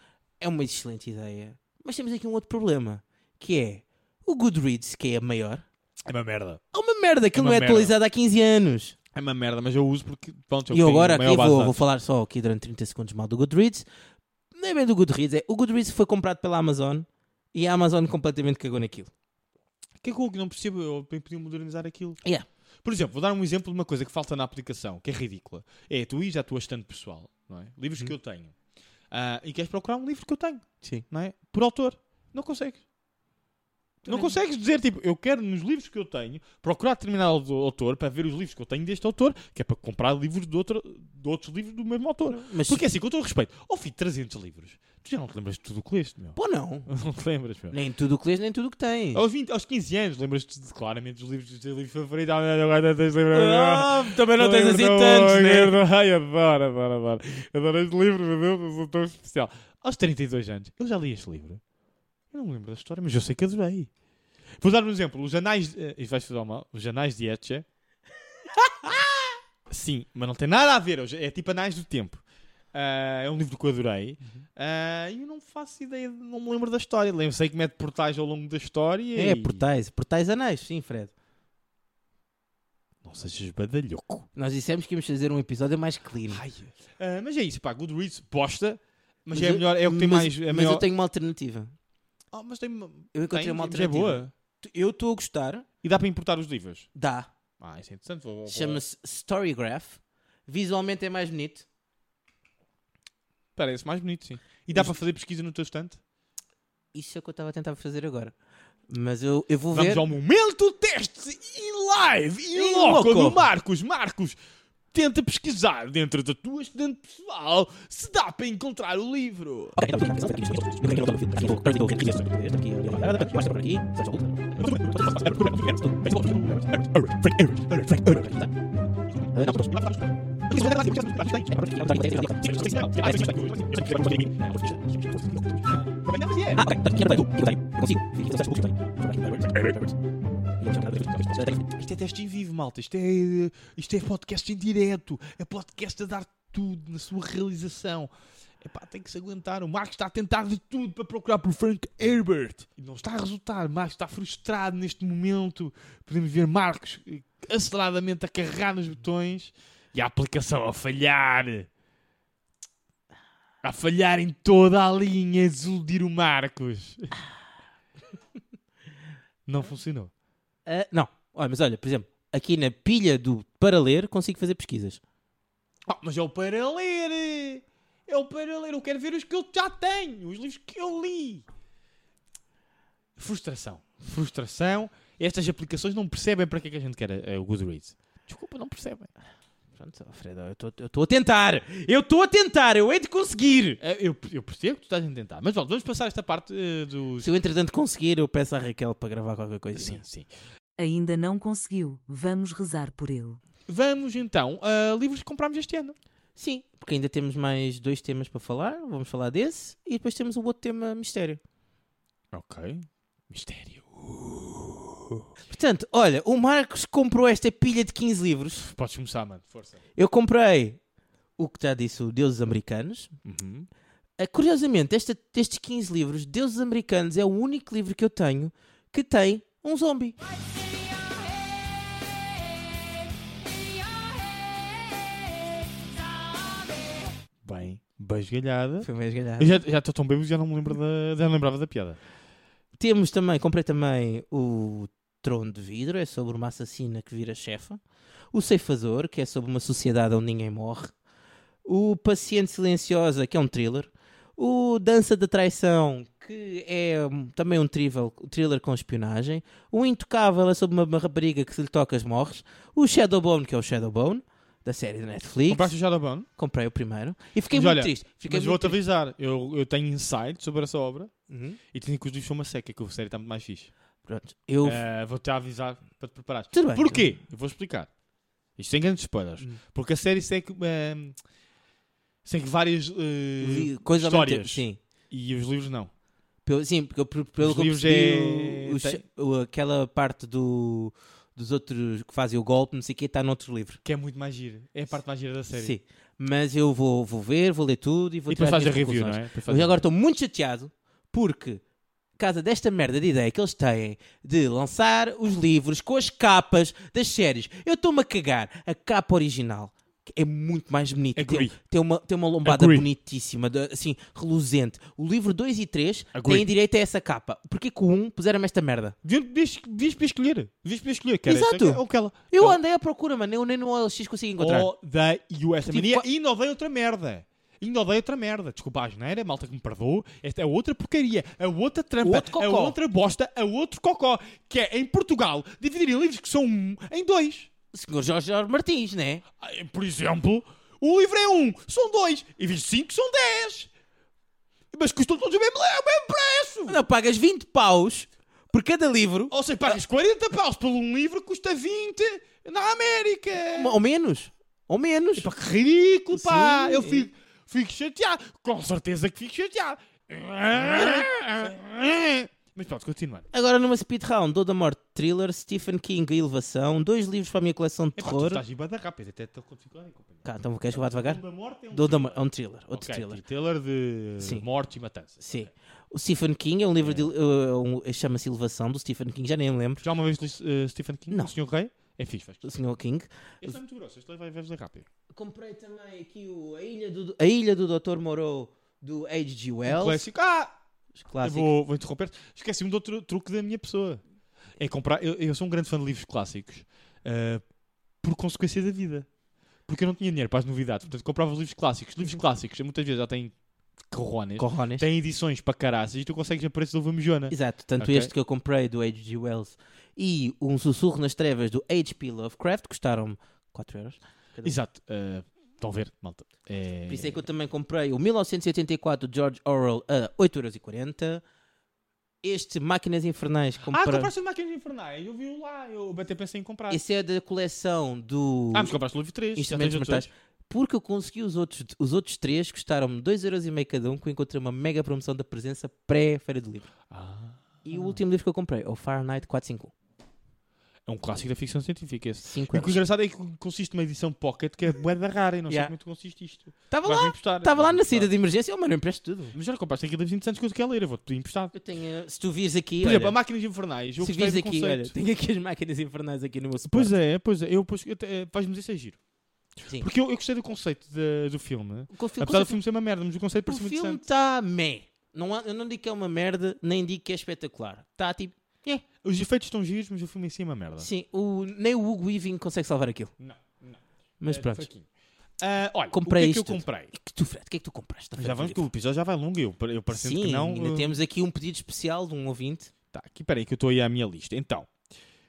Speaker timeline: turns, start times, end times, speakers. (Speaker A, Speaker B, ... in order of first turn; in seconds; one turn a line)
Speaker A: 0.4-5.7
Speaker B: 6.1-6.6
Speaker A: 6.7-9.0
Speaker B: 7.3-8.0
Speaker B: 9.1-11.8
Speaker A: 10.7-13.9
Speaker A: 14.6-19.1
Speaker B: 20.0-22.2
Speaker B: 22.8-28.6
Speaker B: 29.1-32.8
Speaker A: 34.0-34.4
Speaker B: 34.1-47.8
Speaker A: 42.3-42.8
Speaker A: 46.4-46.9
Speaker A: 47.7-49.2
Speaker B: 49.1-61.6
Speaker A: 53.3-55.8
Speaker B: 62.3-63.9
Speaker B: 64.6-67.7
Speaker B: 69.7-79.6
Speaker A: 79.2-81.1
Speaker B: 83.0-84.3
Speaker A: 84.4-86.4
Speaker B: 86.3-90.9
Speaker A: 89.3-91.7
Speaker B: 92.3-94.3
Speaker A: 93.1-95.7
Speaker B: 95.8-96.9
Speaker A: 97.0-97.3
Speaker B: 97.6-98.8
Speaker A: 98.5-101.7
Speaker B: 103.6-106.0
Speaker A: 106.9-108.3
Speaker A: 108.9-110.0
Speaker B: 109.7-114.4
Speaker A: 112.5-113.5
Speaker B: 114.9-119.8
Speaker A: 119.8-126.8
Speaker B: 124.6-128.3
Speaker A: 127.9-128.5
Speaker A: 129.3-130.0
Speaker B: 130.5-131.5
Speaker A: 130.5-135.4
Speaker B: 132.4-134.0
Speaker B: 135.6-136.8
Speaker A: 136.5-139.9
Speaker A: 140.6-141.7
Speaker B: 141.6-161.7
Speaker B: 163.6-167.1
Speaker B: 169.5-170.1
Speaker A: 170.7-175.0
Speaker B: 175.9-181.5
Speaker B: 183.2-189.1
Speaker A: 189.8-193.8
Speaker B: 193.8-197.3
Speaker A: 197.2-200.0
Speaker B: 199.8-200.3
Speaker C: 200.8-203.4
Speaker B: 203.7-206.0
Speaker A: 206.4-211.4
Speaker B: 212.3-215.2
Speaker A: 215.5-218.7
Speaker B: 218.6-219.8
Speaker A: 220.0-220.8
Speaker A: 221.4-223.1
Speaker B: 223.2-223.7
Speaker A: 224.2-230.2
Speaker B: 237.4-242.0
Speaker A: 238.8-239.6
Speaker A: 242.8-247.8
Speaker A: 248.3-250.9
Speaker A: 251.7-265.7
Speaker B: 265.5-266.3
Speaker A: 266.4-268.8
Speaker B: 267.5-271.1
Speaker A: 271.3-271.6
Speaker B: 271.7-273.7
Speaker A: 274.1-274.8
Speaker B: 274.6-277.9
Speaker A: 276.5-277.1
Speaker B: 278.6-281.2
Speaker B: 282.2-285.9
Speaker A: 283.4-284.8
Speaker A: 286.4-293.8
Speaker B: 287.4-289.0
Speaker B: 293.9-295.8
Speaker A: 295.5-301.6
Speaker B: 298.3-299.8
Speaker A: 302.2-319.0
Speaker B: 311.1-311.6
Speaker B: 312.4-312.9
Speaker B: 316.1-316.5
Speaker B: 319.0-322.6
Speaker A: 321.3-324.7
Speaker B: 324.4-337.5
Speaker A: 325.7-326.1
Speaker A: 332.0-332.8
Speaker A: 337.7-339.2
Speaker B: 339.4-343.7
Speaker B: 344.7-346.8
Speaker A: 346.7-349.3
Speaker B: 349.3-353.8
Speaker A: 353.5-355.3
Speaker B: 355.2-363.3
Speaker A: 356.1-357.1
Speaker A: 360.6-361.1
Speaker A: 363.3-368.4
Speaker B: 368.0-372.2
Speaker A: 370.2-371.2
Speaker A: 371.7-373.2
Speaker B: 372.7-375.5
Speaker A: 374.2-374.4
Speaker A: 375.2-379.8
Speaker B: 376.8-377.1
Speaker B: 379.8-382.5
Speaker A: 382.4-383.6
Speaker B: 383.4-384.9
Speaker A: 385.1-390.0
Speaker B: 389.7-390.6
Speaker A: 391.0-391.5
Speaker B: 391.2-394.0
Speaker B: 394.6-397.4
Speaker B: 398.0-399.1
Speaker B: 399.7-403.4
Speaker B: 403.9-408.1
Speaker A: 404.4-404.9
Speaker A: 407.3-414.6
Speaker B: 414.4-417.2
Speaker A: 416.9-421.2
Speaker A: 422.2-424.1
Speaker B: 423.7-426.8
Speaker A: 426.7-428.8
Speaker B: 428.5-430.1
Speaker A: 429.4-436.7
Speaker B: 436.9-438.0
Speaker A: 437.6-439.7
Speaker B: 440.9-448.1
Speaker A: 442.2-442.8
Speaker A: 446.7-449.4
Speaker B: 449.3-451.5
Speaker A: 451.5-453.2
Speaker B: 452.8-454.9
Speaker A: 454.0-456.9
Speaker B: 456.7-459.0
Speaker B: 459.8-464.0
Speaker A: 461.9-462.6
Speaker A: 463.5-468.4
Speaker B: 468.7-470.9
Speaker A: 470.8-473.1
Speaker B: 473.2-474.9
Speaker A: 474.2-474.7
Speaker B: 475.4-476.9
Speaker A: 475.9-478.6
Speaker B: 478.2-481.0
Speaker A: 479.9-482.7
Speaker B: 482.9-484.7